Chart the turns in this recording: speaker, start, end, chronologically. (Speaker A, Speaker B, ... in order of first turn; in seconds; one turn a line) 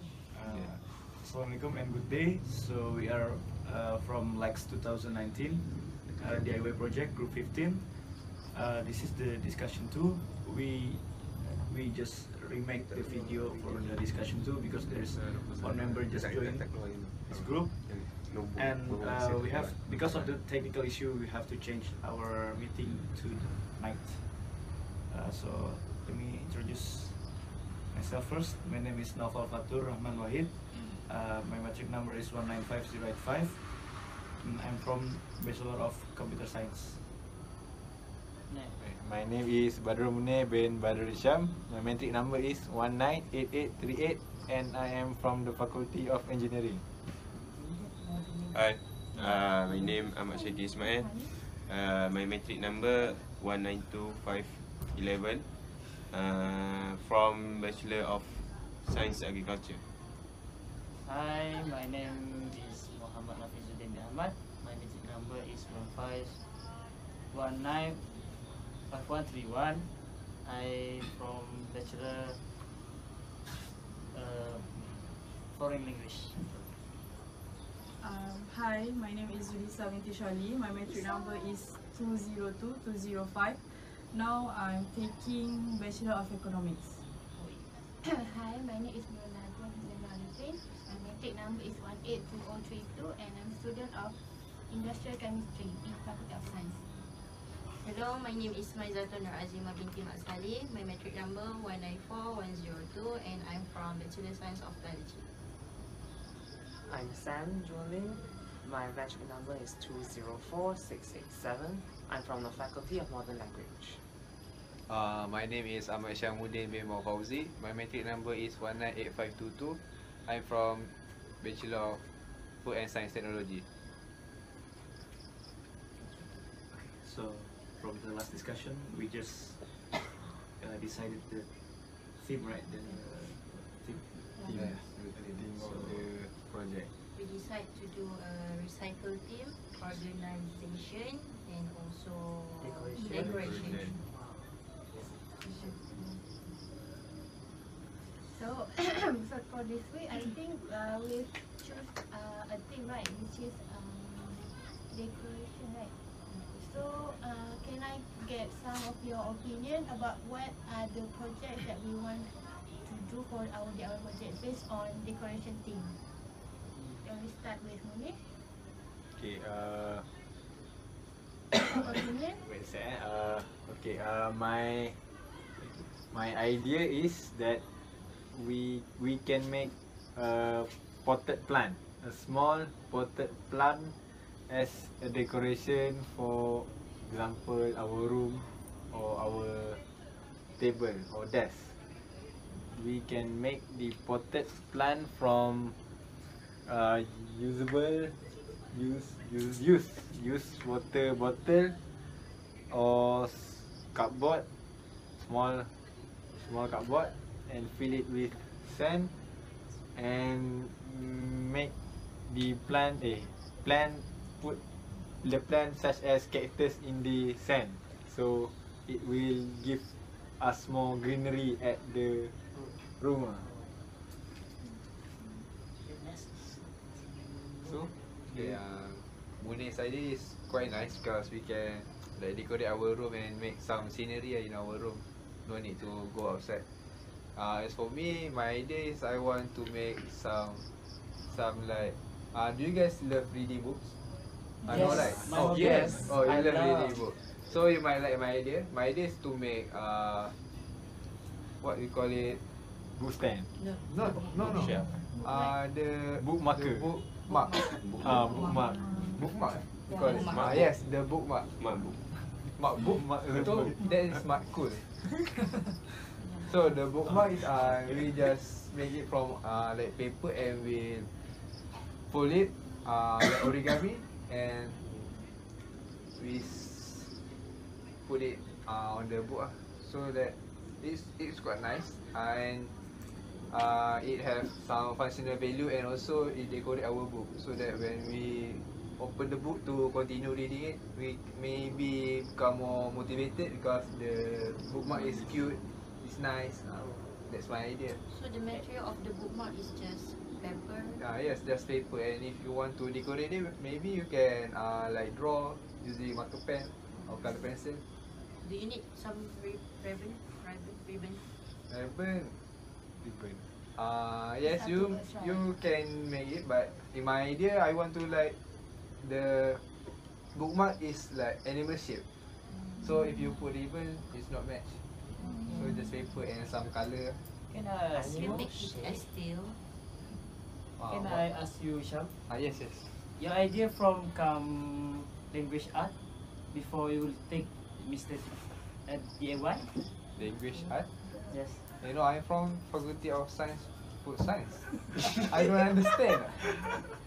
Speaker A: 0.3-37.1
Speaker B: 12.7-14.1
Speaker B: 15.0-20.4
Speaker C: 38.5-38.8
Speaker D: 38.8-46.8
Speaker B: 48.5-59.8
Speaker E: 50.7-51.3
Speaker C: 61.0-66.5
Speaker C: 67.3-68.1
Speaker C: 68.9-69.9
Speaker C: 70.4-72.4
Speaker C: 74.1-74.9
Speaker C: 75.5-76.5
Speaker E: 78.0-87.0
Speaker F: 80.9-81.4
Speaker C: 87.3-87.6
Speaker F: 88.0-96.9
Speaker G: 97.5-105.3
Speaker H: 106.9-114.0
Speaker I: 114.9-122.0
Speaker I: 122.6-123.6
Speaker A: 126.7-134.8
Speaker D: 134.5-136.9
Speaker I: 134.6-135.2
Speaker A: 135.5-136.1
Speaker G: 137.1-144.0
Speaker C: 142.6-144.2
Speaker D: 143.1-143.9
Speaker G: 145.4-146.1
Speaker F: 145.4-145.7
Speaker F: 148.0-166.0
Speaker F: 167.0-168.2
Speaker D: 169.1-170.1
Speaker F: 171.5-172.4
Speaker D: 171.7-175.0
Speaker D: 176.0-177.6
Speaker D: 178.3-189.8
Speaker D: 190.6-191.8
Speaker D: 192.6-195.7
Speaker D: 196.5-198.2
Speaker D: 198.7-201.8
Speaker D: 202.7-204.4
Speaker D: 205.2-205.7
Speaker D: 206.3-209.1
Speaker D: 209.9-211.7
Speaker D: 212.3-214.6
Speaker D: 215.2-223.5
Speaker C: 223.4-223.8
Speaker C: 225.8-228.5
Speaker I: 227.6-236.6
Speaker I: 237.3-240.7
Speaker I: 241.2-244.0
Speaker C: 244.6-247.1
Speaker I: 244.6-250.3
Speaker D: 244.9-246.1
Speaker B: 245.6-246.0
Speaker H: 245.6-246.0
Speaker I: 251.6-252.4
Speaker D: 252.9-253.5
Speaker G: 253.6-255.2
Speaker I: 253.8-257.7
Speaker B: 254.5-254.9
Speaker F: 255.0-255.6
Speaker D: 256.2-256.9
Speaker G: 257.2-260.6
Speaker B: 257.8-258.2
Speaker D: 257.9-258.9
Speaker I: 259.1-261.5
Speaker B: 260.2-260.7
Speaker B: 261.4-262.1
Speaker A: 262.1-262.4
Speaker I: 262.6-264.9
Speaker D: 262.7-264.2
Speaker G: 266.2-266.8
Speaker I: 266.4-271.1
Speaker A: 267.1-268.2
Speaker I: 272.1-274.8
Speaker I: 276.1-277.2
Speaker I: 278.0-282.8
Speaker I: 283.5-298.0
Speaker G: 298.0-301.0
Speaker I: 301.0-307.8
Speaker G: 306.9-307.4
Speaker G: 308.4-311.3
Speaker I: 311.7-312.3
Speaker D: 313.0-313.4
Speaker I: 313.7-318.4
Speaker F: 314.4-315.5
Speaker I: 319.0-319.6
Speaker I: 320.3-322.0
Speaker I: 322.8-324.8
Speaker I: 325.5-327.2
Speaker C: 327.5-328.5
Speaker H: 327.9-329.1
Speaker G: 328.1-329.6
Speaker I: 330.8-331.2
Speaker C: 330.9-332.1
Speaker I: 332.2-333.0
Speaker C: 333.1-336.0
Speaker C: 336.5-339.9
Speaker I: 340.1-341.0
Speaker G: 340.4-341.4
Speaker C: 341.3-341.6
Speaker I: 341.8-346.8